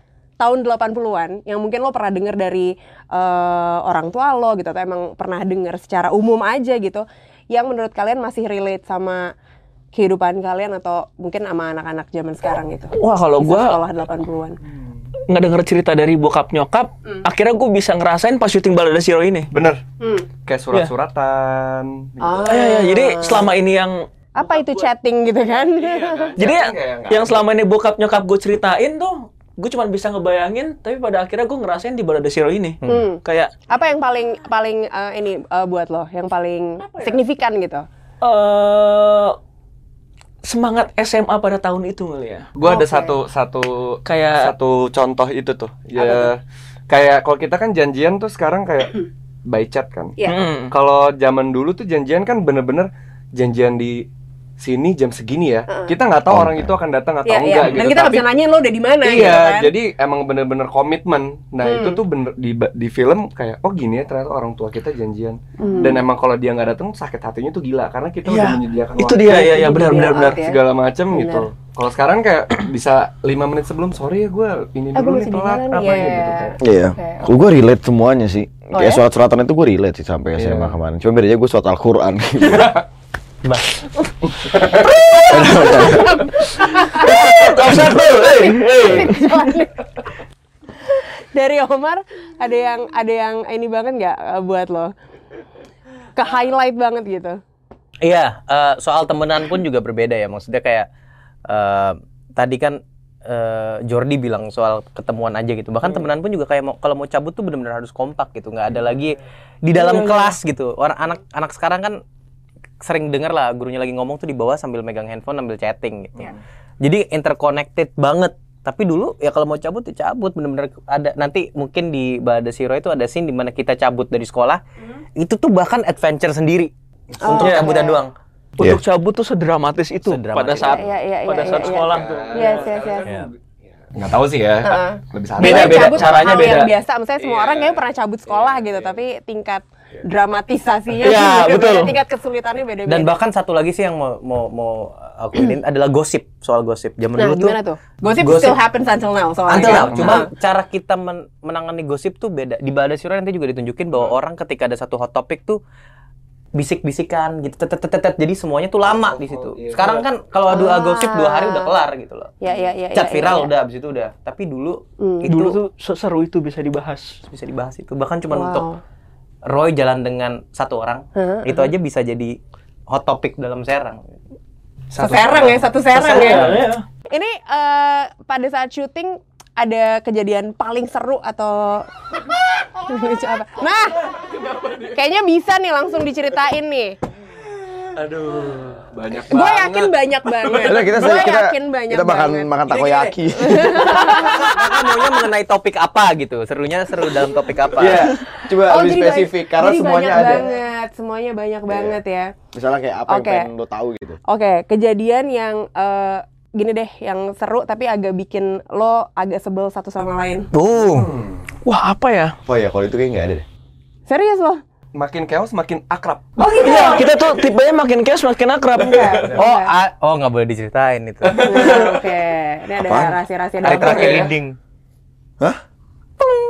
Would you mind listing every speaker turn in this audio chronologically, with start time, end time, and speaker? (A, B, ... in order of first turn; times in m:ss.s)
0:00.4-0:09.3 A
0:09.9-0:14.6 A
0:13.0-0:13.8 B
0:15.3-0:19.5 B
0:19.5-0:19.8 C
0:20.0-0:20.3 A
0:20.5-0:22.6 C
0:22.2-0:23.5 A
0:22.4-0:24.9 B
0:24.4-0:26.4 A
0:25.7-0:27.4 C
0:26.4-0:33.5 B
0:32.8-0:33.1 D
0:32.9-0:37.8 A
0:38.2-0:39.4 B
0:40.4-0:42.5 B
0:42.6-0:50.2 C
0:42.6-0:43.2 A
0:44.1-0:44.5 B
0:46.0-0:46.3 A
0:50.3-0:50.7 B
0:50.7-0:54.0 C
0:54.6-0:58.3 C
0:56.3-0:56.8 E
0:57.3-0:59.7 A
0:59.0-1:16.6 C
1:01.6-1:02.0 A
1:05.6-1:06.0 A
1:08.2-1:10.4 B
1:09.3-1:11.5 A
1:15.0-1:17.3 A
1:16.6-1:22.8 E
1:18.7-1:19.0 A
1:20.4-1:20.8 C
1:22.5-1:22.8 C
1:23.4-1:23.7 D
1:24.3-1:25.3 C
1:25.2-1:26.4 E
1:25.6-1:29.9 A
1:26.9-1:29.3 B
1:27.7-1:28.0 E
1:30.9-1:34.9 A
1:36.2-1:37.4 A
1:38.0-1:40.9 D
1:41.5-1:52.0 D
1:49.8-1:50.3 B
1:52.8-2:04.6 D
2:05.2-2:08.1 D
2:07.2-2:08.0 A
2:07.4-2:07.8 B
2:08.6-2:12.8 B
2:10.0-2:10.9 D
2:10.7-2:13.1 A
2:11.4-2:16.6 C
2:14.6-2:23.1 A
2:15.4-2:16.7 B
2:17.2-2:19.0 C
2:21.0-2:21.9 B
2:22.9-2:27.6 D
2:27.2-2:30.3 A
2:28.2-2:28.6 D
2:29.5-2:35.6 D
2:29.6-2:30.2 C
2:36.6-2:42.3 D
2:38.8-2:40.1 C
2:40.5-2:41.7 A
2:42.4-2:43.5 A
2:42.9-2:45.6 D
2:45.0-2:45.3 A
2:45.3-2:47.2 B
2:47.3-2:48.7 D
2:48.3-2:48.8 A
2:49.4-2:52.4 D
2:51.2-2:51.7 A
2:52.9-2:54.1 D
2:54.9-2:55.6 C
2:55.0-3:01.9 A
2:55.9-2:56.8 B
2:56.0-2:56.7 D
3:02.7-3:04.2 A
3:04.3-3:04.9 C
3:04.9-3:07.0 A
3:07.9-3:10.0 C
3:09.3-3:15.1 A
3:10.5-3:10.8 C
3:10.6-3:14.1 E
3:13.8-3:18.1 D
3:17.8-3:20.5 E
3:18.5-3:22.4 A
3:21.7-3:22.0 E
3:22.5-3:24.2 E
3:23.1-3:23.5 A
3:24.3-3:30.5 A
3:30.5-3:31.1 D
3:30.9-3:31.4 C
3:31.6-3:32.4 B
3:32.5-3:33.4 E
3:34.1-3:34.6 A
3:35.0-3:37.0 C
3:36.4-3:37.1 A
3:36.6-3:39.3 B
3:38.8-3:39.7 A
3:39.0-3:39.4 C
3:39.3-3:41.8 D
3:41.2-3:42.0 C
3:41.4-3:44.3 A
3:42.8-3:43.2 E
3:43.6-3:44.6 D
3:43.6-3:44.4 C